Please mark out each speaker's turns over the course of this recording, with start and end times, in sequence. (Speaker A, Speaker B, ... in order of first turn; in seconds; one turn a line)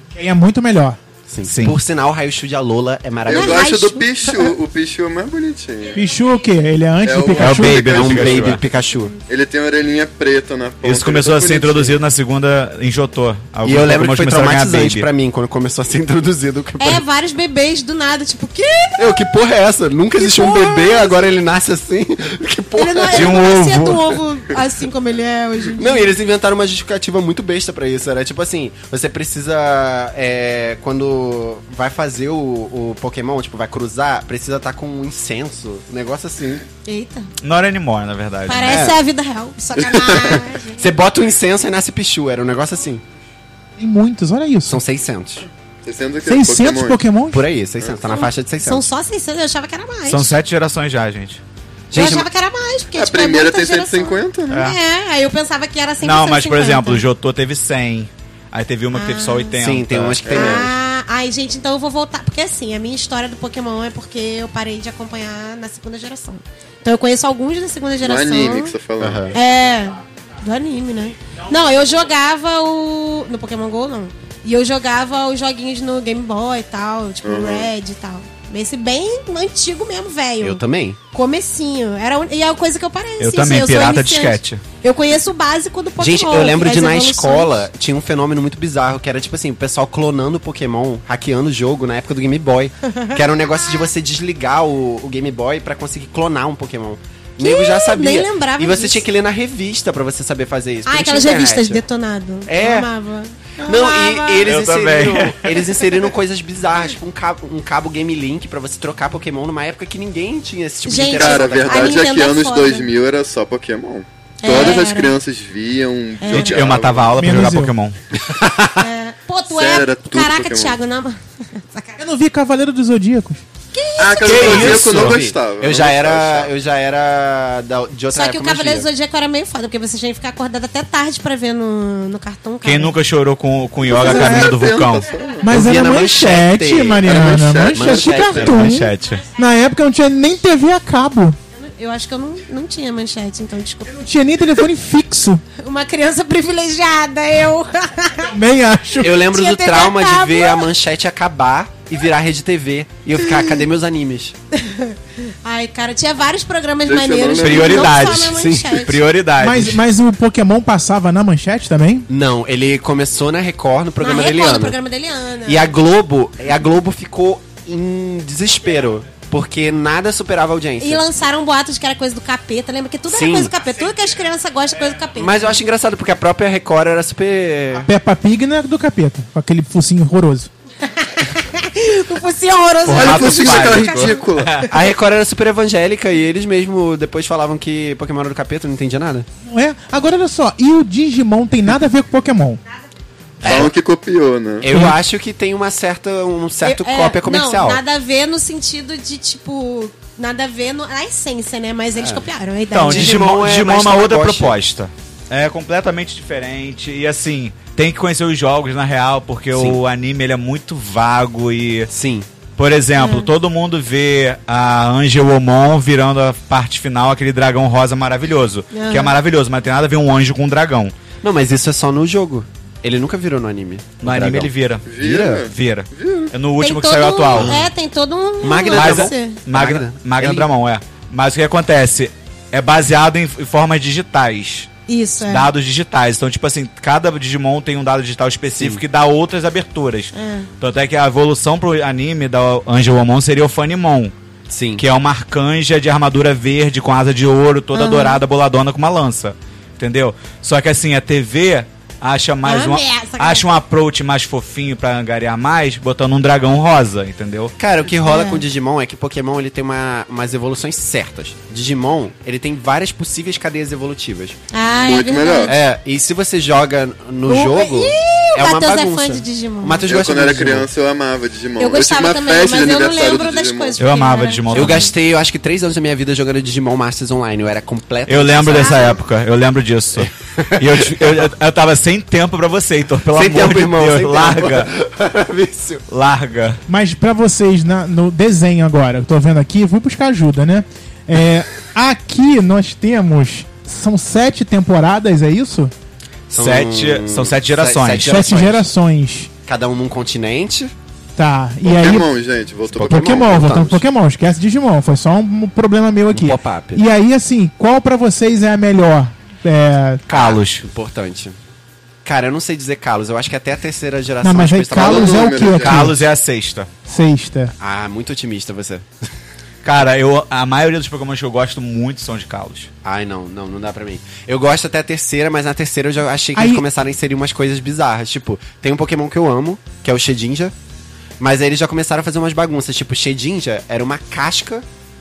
Speaker A: 0.1-1.0
Speaker B: 1.3-3.7
Speaker C: 1.4-1.8
Speaker D: 3.3-6.0
Speaker E: 3.3-4.1
Speaker A: 5.9-7.8
Speaker D: 7.0-8.6
Speaker C: 7.4-8.6
Speaker B: 7.8-9.1
Speaker D: 9.3-12.0
Speaker C: 10.8-15.1
Speaker B: 13.6-17.0
Speaker E: 16.8-19.1
Speaker B: 19.0-23.4
Speaker E: 20.2-21.3
Speaker E: 22.8-26.1
Speaker C: 23.1-24.2
Speaker B: 25.8-36.6
Speaker E: 36.8-37.3
Speaker C: 37.4-38.9
Speaker E: 38.5-40.8
Speaker B: 38.6-39.0
Speaker D: 39.8-40.4
Speaker B: 40.8-43.0
Speaker A: 43.8-44.8
Speaker B: 44.7-45.5
Speaker D: 45.8-47.0
Speaker A: 46.2-47.4
Speaker B: 47.3-48.9
Speaker D: 47.8-48.1
Speaker E: 48.1-50.3
Speaker C: 50.1-51.4
Speaker B: 51.9-52.3
Speaker E: 51.9-57.0
Speaker D: 52.9-54.7
Speaker C: 54.5-54.8
Speaker C: 56.0-60.2
Speaker E: 58.9-59.5
Speaker B: 59.6-60.7
Speaker D: 60.3-60.7
Speaker E: 60.3-68.8
Speaker D: 68.0-69.3
Speaker B: 69.0-69.4
Speaker E: 69.3-80.6
Speaker D: 77.2-77.7
Speaker B: 80.4-81.0
Speaker E: 81.1-87.6
Speaker C: 83.2-84.6
Speaker B: 86.0-101.8
Speaker E: 97.4-99.0
Speaker E: 100.8-104.5
Speaker B: 102.5-102.9
Speaker B: 103.6-112.2
Speaker C: 104.4-105.6
Speaker E: 110.8-112.9
Speaker D: 111.1-117.2
Speaker E: 114.4-115.2
Speaker E: 116.2-116.7
Speaker C: 116.3-118.0
Speaker A: 117.2-117.7
Speaker E: 118.8-122.0
Speaker D: 119.5-120.8
Speaker A: 122.0-123.4
Speaker E: 123.7-124.8
Speaker D: 124.0-126.5
Speaker C: 124.2-125.2
Speaker B: 124.4-128.9
Speaker E: 128.1-133.0
Speaker C: 132.6-135.1
Speaker D: 133.8-135.5
Speaker A: 134.0-134.5
Speaker A: 135.4-138.8
Speaker B: 135.4-138.8
Speaker D: 137.0-138.7
Speaker C: 138.4-139.2
Speaker A: 139.3-141.4
Speaker E: 141.5-143.9
Speaker A: 143.9-145.4
Speaker E: 145.6-148.3
Speaker A: 148.3-149.2
Speaker B: 149.0-154.3
Speaker E: 149.2-150.7
Speaker E: 154.5-159.0
Speaker D: 156.8-158.1
Speaker C: 157.4-159.8
Speaker B: 158.1-158.9
Speaker A: 159.4-162.1
Speaker B: 162.1-164.8
Speaker E: 164.0-165.7
Speaker B: 165.4-171.1
Speaker E: 170.8-175.6
Speaker B: 173.1-173.5
Speaker B: 175.2-177.9
Speaker A: 177.8-180.5
Speaker E: 180.8-184.2
Speaker C: 182.8-184.7
Speaker D: 182.9-184.6
Speaker B: 184.7-189.3
Speaker A: 189.4-192.6
Speaker C: 193.4-193.7
Speaker B: 193.4-193.7
Speaker D: 193.4-194.7
Speaker B: 194.6-197.8
Speaker E: 196.6-203.2
Speaker B: 202.0-202.2
Speaker C: 202.7-211.9
Speaker B: 202.8-204.6
Speaker B: 209.5-209.8
Speaker B: 211.9-212.3
Speaker C: 212.6-220.9
Speaker E: 213.0-213.3
Speaker E: 218.7-219.1
Speaker B: 221.2-225.5
Speaker C: 224.0-224.9
Speaker D: 224.8-226.3
Speaker C: 225.5-227.6
Speaker E: 226.6-229.4
Speaker B: 227.3-227.7
Speaker B: 228.4-230.5
Speaker C: 228.7-234.7
Speaker E: 234.9-235.5
Speaker C: 235.2-244.1
Speaker E: 240.1-240.5
Speaker B: 244.5-244.8
Speaker C: 244.8-257.5
Speaker E: 247.7-248.2
Speaker E: 252.4-253.4
Speaker B: 257.6-264.4
Speaker E: 258.0-258.4
Speaker E: 264.5-265.5
Speaker D: 264.7-265.5
Speaker B: 265.4-270.7
Speaker E: 267.3-269.9
Speaker D: 269.9-273.8
Speaker E: 271.6-274.9
Speaker C: 273.8-274.9
Speaker B: 274.5-279.0
Speaker C: 278.1-284.7
Speaker E: 278.5-278.9
Speaker B: 279.9-281.3
Speaker B: 283.1-285.8
Speaker C: 285.9-286.6
Speaker A: 286.7-295.7
Speaker B: 296.3-298.7
Speaker C: 296.3-298.3
Speaker A: 298.0-299.3
Speaker B: 299.4-300.7
Speaker A: 301.2-302.1
Speaker D: 301.6-303.4
Speaker B: 302.7-303.8
Speaker A: 302.8-310.0
Speaker B: 306.1-306.8
Speaker C: 310.1-310.6
Speaker B: 310.1-311.4
Speaker B: 312.0-315.8
Speaker A: 314.2-315.9
Speaker D: 314.8-315.9
Speaker C: 315.6-316.7
Speaker A: 316.9-317.5
Speaker B: 317.6-319.1
Speaker C: 319.6-322.7
Speaker B: 322.8-330.5
Speaker A: 326.3-326.6
Speaker B: 331.2-334.6